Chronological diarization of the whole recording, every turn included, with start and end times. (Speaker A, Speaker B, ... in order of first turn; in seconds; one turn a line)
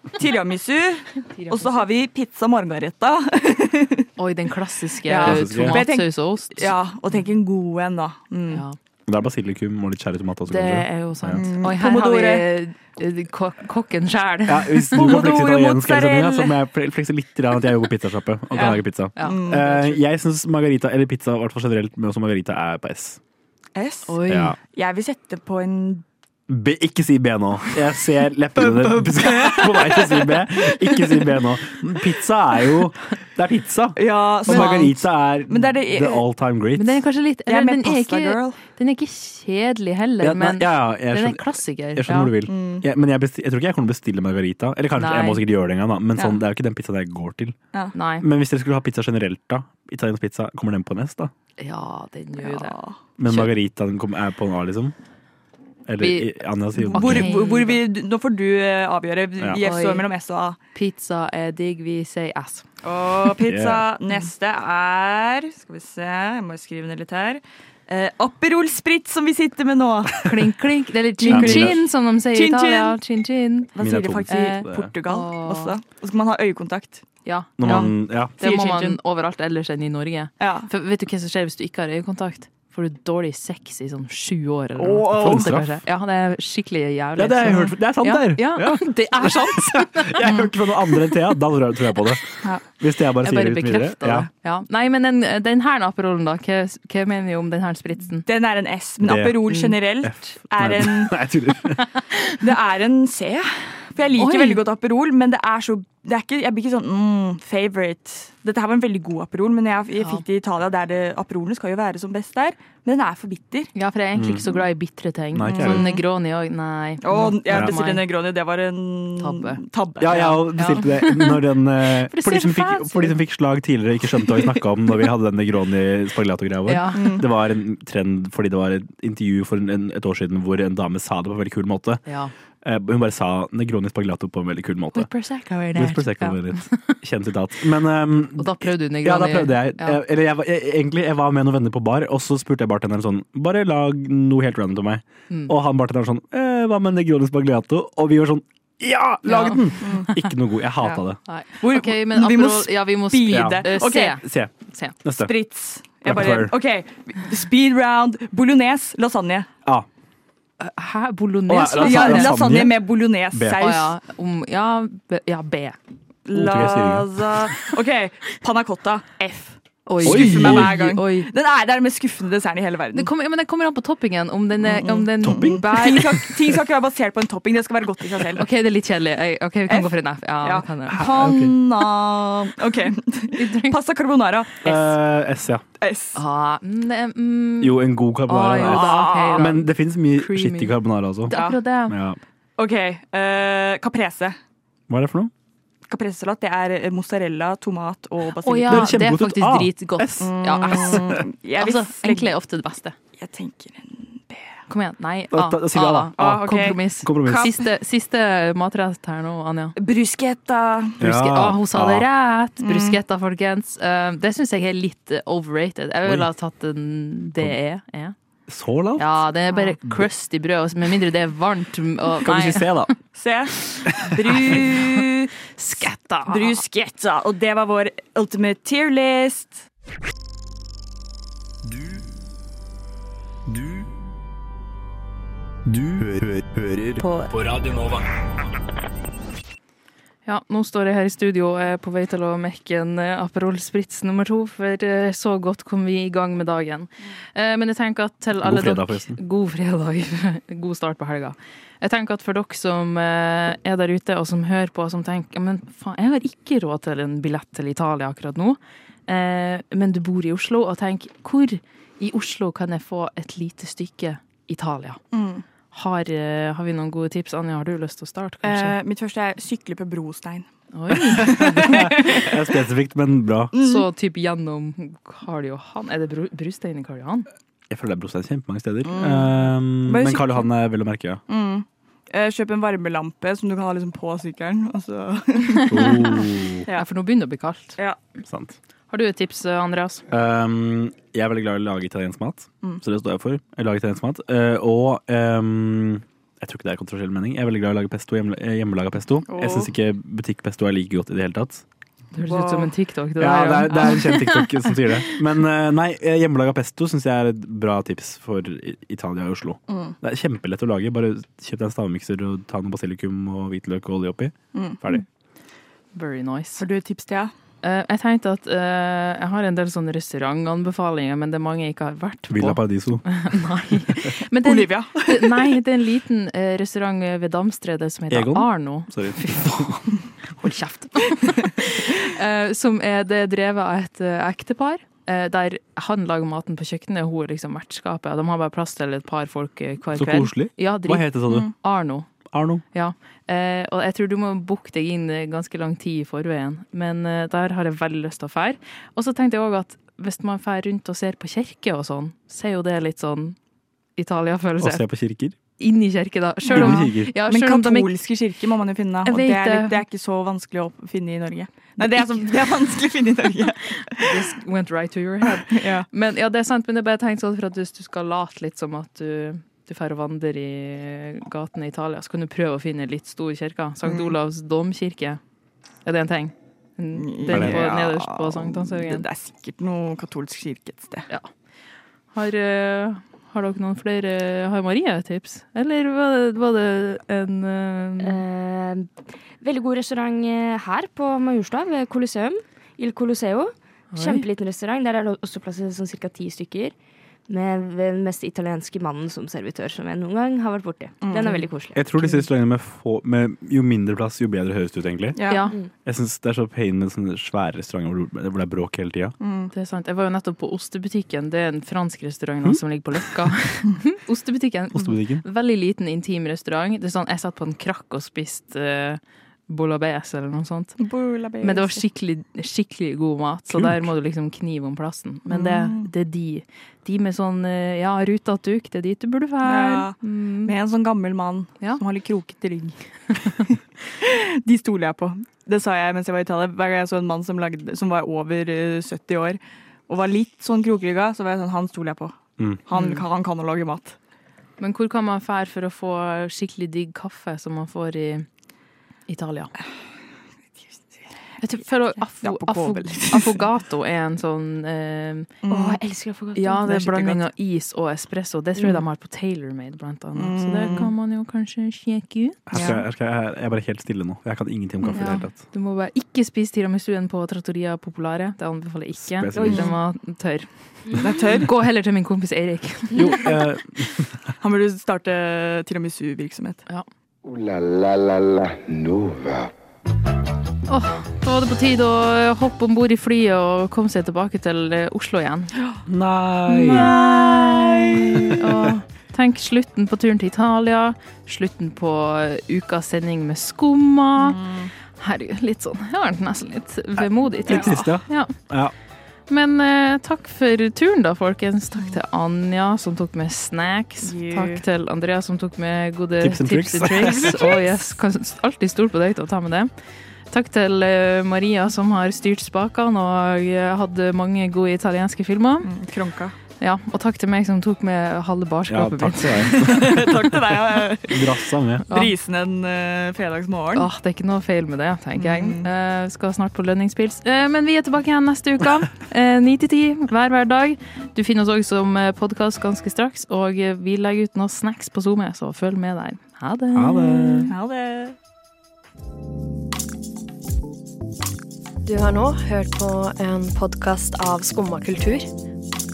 Speaker A: 0.1-4.1
Speaker B: 1.4-1.7
Speaker B: 4.2-6.7
Speaker A: 5.1-8.6
Speaker C: 5.2-5.8
Speaker B: 8.5-8.8
Speaker C: 9.1-11.4
Speaker B: 10.5-15.2
Speaker A: 11.4-12.5
Speaker C: 14.5-23.2
Speaker A: 14.9-16.6
Speaker A: 18.5-19.8
Speaker B: 19.1-20.0
Speaker A: 23.7-26.1
Speaker B: 24.1-24.6
Speaker C: 24.3-24.6
Speaker C: 26.5-37.0
Speaker A: 28.6-31.4
Speaker A: 34.0-36.2
Speaker B: 34.5-34.8
Speaker B: 36.8-42.3
Speaker A: 37.5-38.6
Speaker C: 40.2-47.6
Speaker A: 42.5-42.9
Speaker B: 45.0-45.4
Speaker B: 47.9-48.2
Speaker C: 48.2-51.3
Speaker B: 51.6-52.7
Speaker A: 52.4-53.0
Speaker C: 53.2-54.9
Speaker C: 55.9-57.3
Speaker B: 56.0-57.8
Speaker A: 56.9-60.6
Speaker B: 59.6-60.1
Speaker B: 60.7-62.6
Speaker A: 62.8-70.3
Speaker C: 63.4-63.9
Speaker B: 70.2-73.7
Speaker A: 71.2-73.0
Speaker C: 71.3-71.8
Speaker A: 73.7-77.1
Speaker C: 73.8-74.9
Speaker B: 74.3-75.7
Speaker B: 77.2-90.3
Speaker C: 77.6-78.3
Speaker A: 77.6-79.0
Speaker A: 80.4-80.7
Speaker A: 84.8-85.5
Speaker C: 85.0-85.7
Speaker C: 87.2-94.3
Speaker B: 93.2-98.2
Speaker A: 98.2-101.2
Speaker C: 99.0-101.9
Speaker A: 102.3-113.7
Speaker B: 104.2-104.6
Speaker B: 113.7-118.0
Speaker C: 114.2-114.4
Speaker C: 115.3-115.9
Speaker A: 115.5-116.0
Speaker A: 117.0-120.4
Speaker B: 119.2-123.2
Speaker C: 120.0-132.0
Speaker B: 124.2-124.6
Speaker B: 126.7-127.2
Speaker A: 126.9-127.3
Speaker B: 132.1-132.3
Speaker C: 132.6-135.1
Speaker B: 134.9-136.7
Speaker C: 135.7-151.2
Speaker B: 138.3-140.0
Speaker B: 149.2-150.3
Speaker B: 151.3-154.9
Speaker A: 151.6-154.2
Speaker C: 153.3-154.5
Speaker C: 155.0-155.3
Speaker A: 155.2-159.5
Speaker C: 156.1-156.5
Speaker B: 160.6-162.4
Speaker C: 161.5-163.6
Speaker A: 161.8-163.9
Speaker B: 163.6-165.8
Speaker A: 166.2-173.1
Speaker C: 166.3-167.1
Speaker B: 169.9-171.3
Speaker C: 170.0-170.9
Speaker B: 172.9-176.3
Speaker A: 174.6-178.4
Speaker C: 175.2-176.2
Speaker B: 178.4-181.1
Speaker A: 179.7-185.0
Speaker C: 180.9-181.6
Speaker B: 183.3-183.8
Speaker C: 184.6-185.6
Speaker A: 185.8-186.2
Speaker B: 186.1-191.9
Speaker C: 187.6-192.2
Speaker A: 188.5-189.6
Speaker A: 191.3-191.6
Speaker A: 192.6-194.4
Speaker C: 194.9-195.3
Speaker A: 195.9-199.0
Speaker B: 198.4-202.9
Speaker C: 198.7-201.2
Speaker A: 200.2-202.3
Speaker A: 203.2-204.6
Speaker B: 204.7-209.7
Speaker C: 205.3-207.5
Speaker A: 206.2-207.6
Speaker A: 209.8-211.0
Speaker C: 211.0-212.1
Speaker B: 211.0-218.1
Speaker A: 212.6-213.0
Speaker C: 218.5-219.2
Speaker B: 219.0-222.9
Speaker C: 222.2-222.9
Speaker A: 223.1-225.3
Speaker B: 224.4-224.9
Speaker B: 225.6-226.6
Speaker A: 226.3-229.6
Speaker D: 233.5-233.9
Speaker D: 235.7-237.2
Speaker C: 237.3-238.1
Speaker B: 240.2-265.0
Speaker C: 248.4-249.2
Speaker A: 265.1-265.4
Speaker B: 265.7-268.8
Speaker A: 268.4-270.5
Speaker B: 270.7-272.2
Speaker A: 271.0-272.3
Speaker C: 271.2-273.5
Speaker A: 273.5-273.9
Speaker B: 273.6-277.3
Speaker C: 277.7-281.2
Speaker A: 278.9-280.4
Speaker A: 281.3-285.9
Speaker B: 285.5-286.2
Speaker C: 285.7-286.6
Speaker B: 286.7-287.8
Speaker C: 288.2-288.6
Speaker B: 288.9-290.0
Speaker C: 290.1-301.6
Speaker A: 299.2-299.7
Speaker B: 302.1-305.1
Speaker A: 302.2-302.7
Speaker C: 303.2-315.0
Speaker A: 309.7-309.9
Speaker A: 314.5-314.8
Speaker B: 315.9-316.6
Speaker A: 316.6-317.3
Speaker B: 317.6-342.1
Speaker C: 322.3-323.1
Speaker A: 324.4-325.5
Speaker C: 328.1-329.7
Speaker C: 339.9-341.5
Speaker C: 342.3-342.6
Speaker B: 342.7-353.4
Speaker B: 354.0-354.9
Speaker C: 354.6-355.4
Speaker B: 355.6-357.9
Speaker A: 356.5-364.2
Speaker C: 356.5-357.1
Speaker B: 359.1-359.8
Speaker B: 363.9-375.2
Speaker A: 365.4-365.9
Speaker A: 373.9-374.1
Speaker B: 375.9-379.0
Speaker A: 376.9-381.1
Speaker C: 377.3-377.6
Speaker B: 382.1-388.2
Speaker E: 388.0-388.9
Speaker E: 389.4-396.7
Speaker B: 393.9-394.2
Speaker E: 397.3-401.8
Speaker A: 401.0-401.3
Speaker C: 401.7-405.3
Speaker A: 405.1-405.5
Speaker B: 405.3-405.6
Speaker C: 405.9-409.1
Speaker A: 409.2-409.5
Speaker B: 409.5-420.8
Speaker C: 414.7-415.2
Speaker A: 420.8-421.8
Speaker B: 421.4-430.5
Speaker C: 423.5-423.9
Speaker A: 425.3-425.9
Speaker A: 429.4-442.1
Speaker A: 442.6-444.0
Speaker B: 444.6-448.3
Speaker B: 449.1-449.5
Speaker B: 451.4-455.3
Speaker A: 452.2-453.4
Speaker A: 455.4-455.8
Speaker E: 455.5-456.7
Speaker B: 456.4-462.4
Speaker A: 456.6-457.2
Speaker A: 460.1-460.9
Speaker C: 462.5-465.3
Speaker A: 462.5-462.8
Speaker B: 464.9-473.3
Speaker C: 469.0-469.7
Speaker A: 469.3-469.7
Speaker A: 470.9-471.5
Speaker C: 472.9-474.1
Speaker A: 474.4-476.6
Speaker F: 477.2-479.5
Speaker B: 480.7-485.5
Speaker C: 485.9-486.9
Speaker B: 486.5-494.4
Speaker A: 486.6-488.3
Speaker A: 494.2-494.7
Speaker B: 495.0-498.3
Speaker C: 497.4-498.7
Speaker B: 499.3-509.7
Speaker A: 504.0-504.6
Speaker C: 506.2-507.6
Speaker B: 510.3-515.7
Speaker A: 515.6-516.4
Speaker B: 516.6-519.6
Speaker C: 518.7-521.9
Speaker A: 519.5-523.9
Speaker B: 523.8-537.5
Speaker A: 525.1-525.7
Speaker C: 536.7-537.5
Speaker A: 537.5-538.1
Speaker G: 541.9-545.3